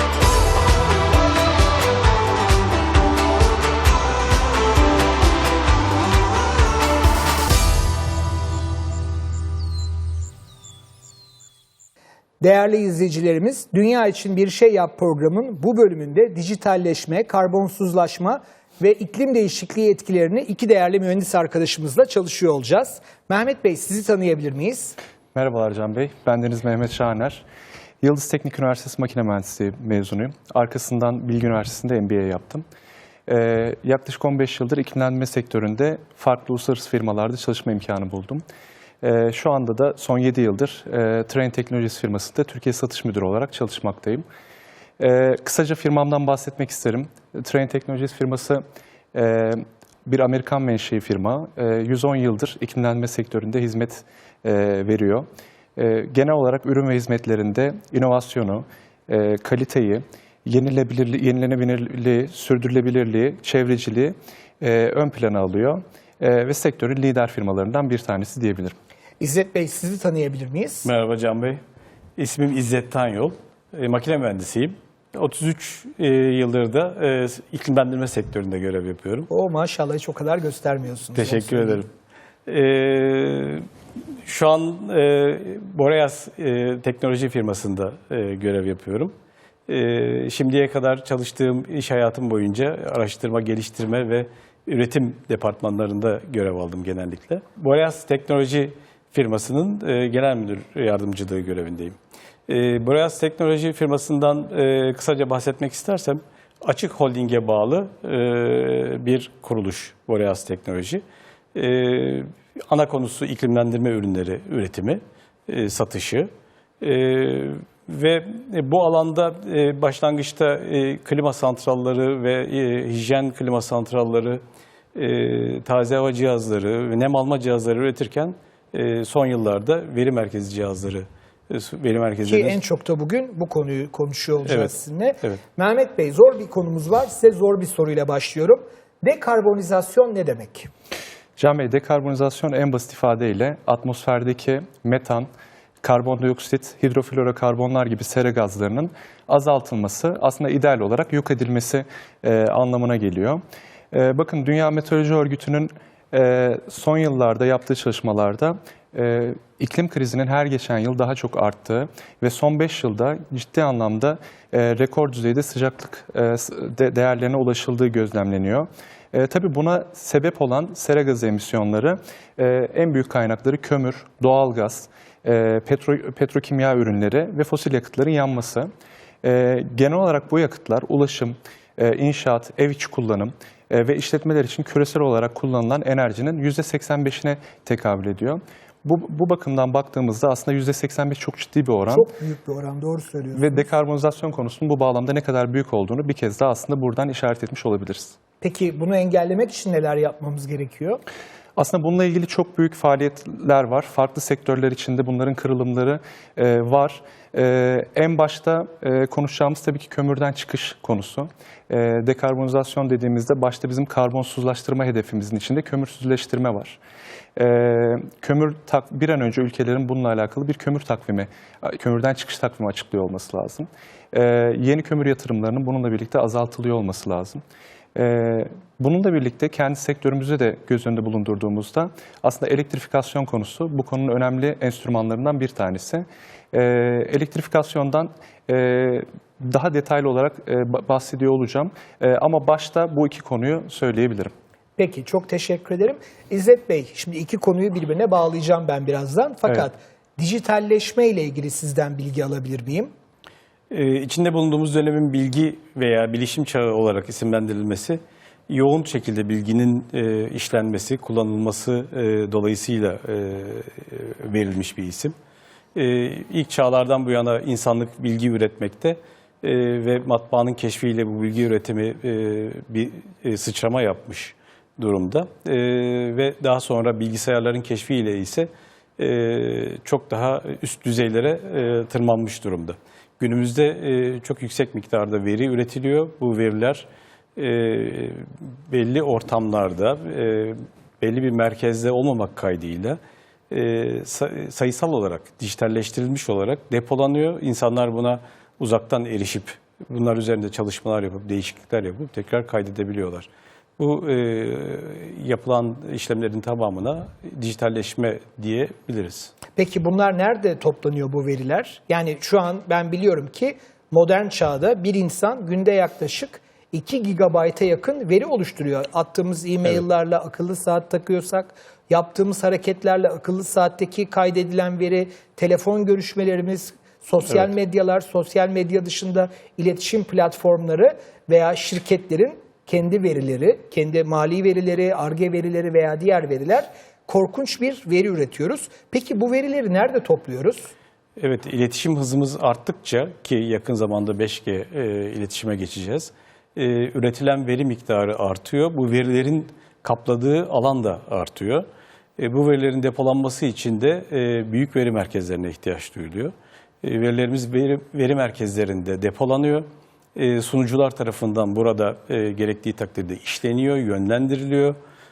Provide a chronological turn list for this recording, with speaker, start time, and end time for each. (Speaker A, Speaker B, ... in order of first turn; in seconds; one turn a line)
Speaker A: 12.4-24.9
Speaker B: 25.3-27.4
Speaker B: 28.0-32.6
Speaker B: 33.3-38.4
Speaker B: 39.0-44.2
Speaker B: 45.0-68.7
Speaker A: 69.2-70.9
Speaker C: 70.8-71.6
Speaker C: 72.2-79.3
Speaker A: 79.3-81.8
Speaker C: 81.2-81.9
Speaker C: 82.5-83.7
Speaker C: 84.2-89.1
Speaker C: 89.7-102.0
Speaker C: 102.5-111.0
Speaker C: 111.5-116.3
Speaker C: 116.8-124.4
Speaker C: 124.9-132.6
Speaker A: 132.3-140.7
Speaker C: 134.4-135.4
Speaker B: 141.4-145.3
Speaker B: 145.8-153.4
Speaker B: 153.9-178.7
Speaker B: 179.2-192.1
Speaker A: 191.9-193.6
Speaker B: 193.3-198.2
Speaker A: 198.4-201.0
Speaker B: 201.6-216.8
Speaker B: 217.3-227.4
Speaker B: 227.9-244.3
Speaker A: 244.8-252.9
Speaker C: 253.7-265.1
Speaker C: 265.8-293.0
Speaker C: 293.5-309.3
Speaker A: 309.6-340.7
Speaker C: 341.2-351.6
Speaker C: 352.2-364.8